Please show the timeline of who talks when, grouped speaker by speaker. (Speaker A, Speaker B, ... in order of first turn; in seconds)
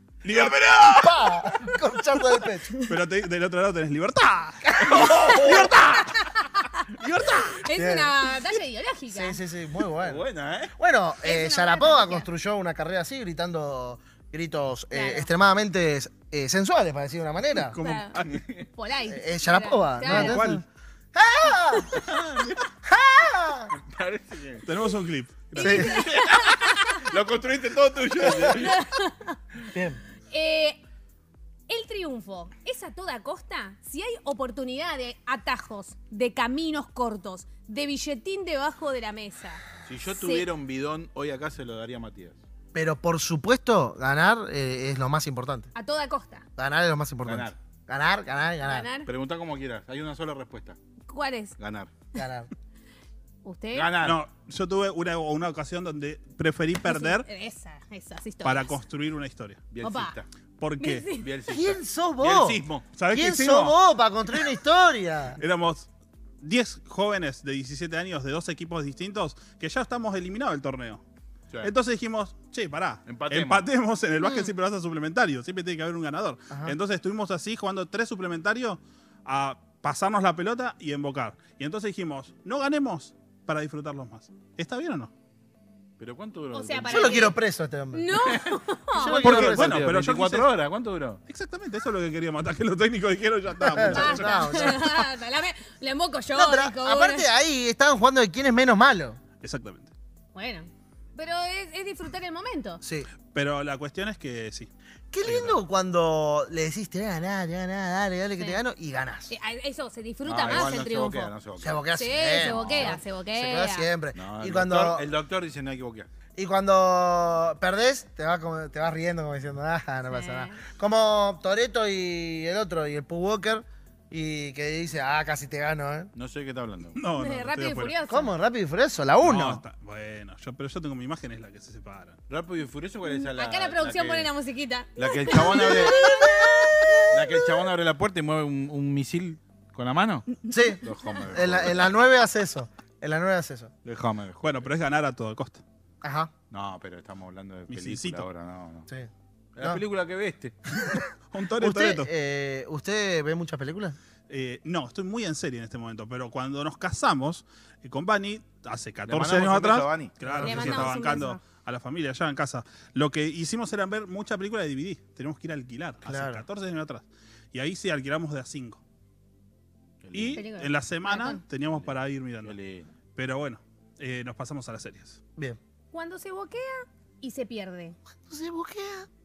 Speaker A: 0.2-1.4, 4.7-6.1, 7.0-7.4, 10.0-10.8, 18.2-18.7, 21.9-22.7, 23.7-24.6, 25.8-28.8, 39.9-42.4, 47.3-47.6, 49.1-50.8, 51.6-51.9, 53.7-54.2, 59.7-60.3, 61.1-62.9, 73.1-73.7, 86.0-87.3, 88.1-88.6, 89.2-91.2, 110.2-111.8, 112.3-113.0, 114.2-116.1, 126.2-127.0, 132.3-134.3, 135.0-136.2, 137.1-140.3, 140.8-142.0, 143.8-144.5, 146.5-148.9, 149.6-150.6, 159.1-160.1, 170.0-170.4, 171.7-172.9
Speaker B: 0.3-2.7, 4.8-6.0, 7.7-8.3, 9.1-17.8, 19.1-22.0, 22.9-23.7, 25.6-25.9, 29.7-30.0, 42.7-45.7, 46.6-48.9, 52.1-52.5, 61.5-65.4, 76.5-76.8, 86.9-88.3, 88.9-89.8, 93.7-94.9, 96.3-99.2, 102.8-103.1, 105.1-109.3, 110.5-110.8, 111.6-115.1, 116.4-126.1, 128.1-129.6, 136.0-137.0, 140.5-143.7, 146.0-146.3, 148.9-149.8, 150.8-151.1, 151.6-154.0, 160.2-160.9, 166.1-166.4, 178.3-179.1
Speaker C: 2.9-5.0, 17.5-18.4, 20.1-20.6, 24.6-26.0, 54.0-57.3, 58.4-59.6, 60.6-61.1, 63.0-63.8, 65.4-65.9, 66.4-71.0, 71.6-85.1, 89.2-90.5, 91.3-95.0, 99.4-99.9, 103.3-104.7, 105.2-105.6, 127.0-128.0, 129.2-132.2, 144.4-145.6, 147.7-148.3, 151.3-152.1, 154.3-168.8, 170.1-172.6, 173.2-175.2
Speaker D: 5.3-9.4, 11.2-12.3, 14.9-15.3, 17.8-20.4, 25.6-27.1, 28.4-29.4, 30.3-30.8, 31.7-40.5, 45.8-46.5, 48.6-49.1, 51.1-51.6, 53.4-53.9, 56.9-58.8, 59.8-60.2, 60.8-61.3, 74.2-74.5, 86.5-87.4, 87.9-89.2, 93.9-97.3, 100.3-102.8, 109.3-111.3, 111.9-113.9, 120.1-120.6, 127.2-128.3, 133.1-137.5, 160.4-161.4, 170.3-171.4, 175.9-178.0